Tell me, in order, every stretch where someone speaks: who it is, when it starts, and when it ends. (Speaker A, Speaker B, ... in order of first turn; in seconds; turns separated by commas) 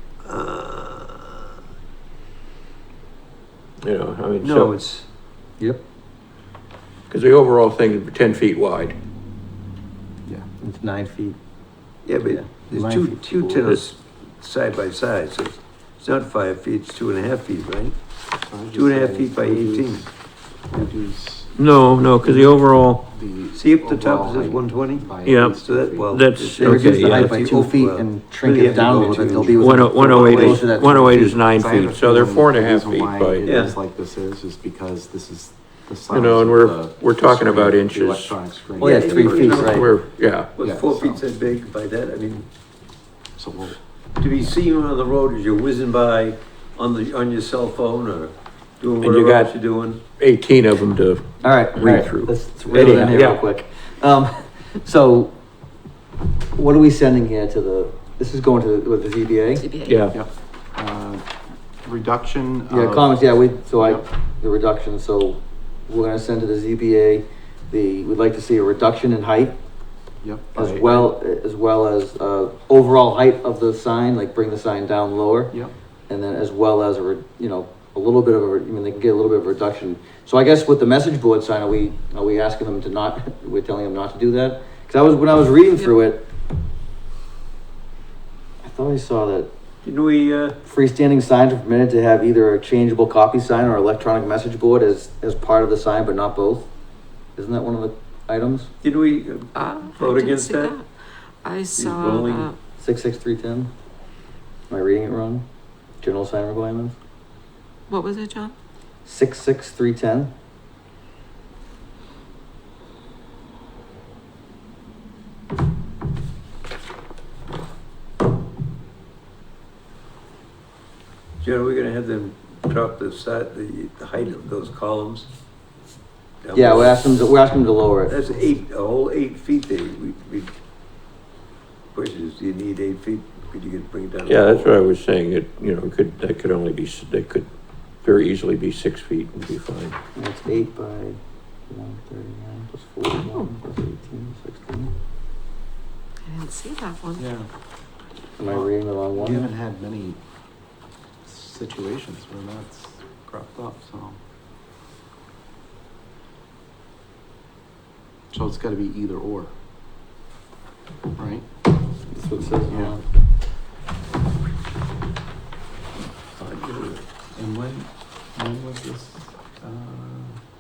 Speaker A: 0.2-1.4, Speaker B: 3.8-4.8, Speaker A: 4.4-5.0, Speaker B: 7.1-9.0, Speaker C: 10.6-11.4, Speaker A: 12.1-18.0, Speaker C: 12.2-13.7, Speaker D: 18.5-20.1, Speaker A: 18.7-20.1, Speaker D: 20.7-21.5, Speaker B: 21.6-23.1, Speaker D: 22.2-22.6, Speaker D: 23.1-26.2, Speaker A: 23.6-25.1, Speaker B: 25.3-27.4, Speaker A: 25.6-30.6, Speaker C: 26.6-31.4, Speaker D: 28.6-29.8, Speaker B: 29.6-33.5, Speaker D: 31.6-39.8, Speaker A: 33.5-33.8, Speaker B: 36.1-38.4, Speaker A: 38.8-40.0, Speaker C: 38.8-39.9, Speaker B: 39.7-40.5, Speaker A: 40.6-42.5, Speaker D: 40.6-41.2, Speaker D: 43.4-43.8, Speaker A: 44.2-50.0, Speaker B: 49.0-49.5, Speaker B: 50.2-53.4, Speaker C: 51.4-55.3, Speaker C: 56.5-59.7, Speaker E: 59.6-60.1, Speaker B: 59.9-60.2, Speaker D: 60.1-61.2, Speaker D: 61.8-63.2, Speaker C: 62.7-69.6, Speaker D: 63.8-64.0, Speaker D: 70.2-71.1, Speaker C: 70.5-75.5, Speaker C: 76.1-86.2, Speaker C: 88.6-89.5, Speaker A: 89.8-90.5, Speaker C: 90.6-96.7, Speaker C: 97.4-98.7, Speaker A: 98.8-100.8, Speaker E: 99.5-100.8, Speaker E: 101.4-102.6, Speaker A: 101.8-102.5, Speaker C: 102.8-103.7, Speaker C: 104.7-105.5, Speaker C: 106.0-107.0, Speaker E: 107.9-108.5, Speaker C: 109.0-110.3, Speaker A: 121.4-125.3, Speaker A: 126.4-127.2, Speaker C: 126.5-128.2, Speaker A: 128.1-130.5, Speaker A: 131.9-134.8, Speaker B: 134.2-137.5, Speaker B: 138.0-140.0, Speaker C: 140.2-144.9, Speaker E: 146.3-147.3, Speaker D: 147.2-147.5, Speaker C: 148.4-149.5, Speaker D: 148.4-150.2, Speaker D: 151.2-154.2, Speaker D: 158.3-159.5, Speaker D: 161.1-161.5, Speaker C: 162.1-163.0, Speaker D: 162.7-162.9, Speaker D: 167.3-170.4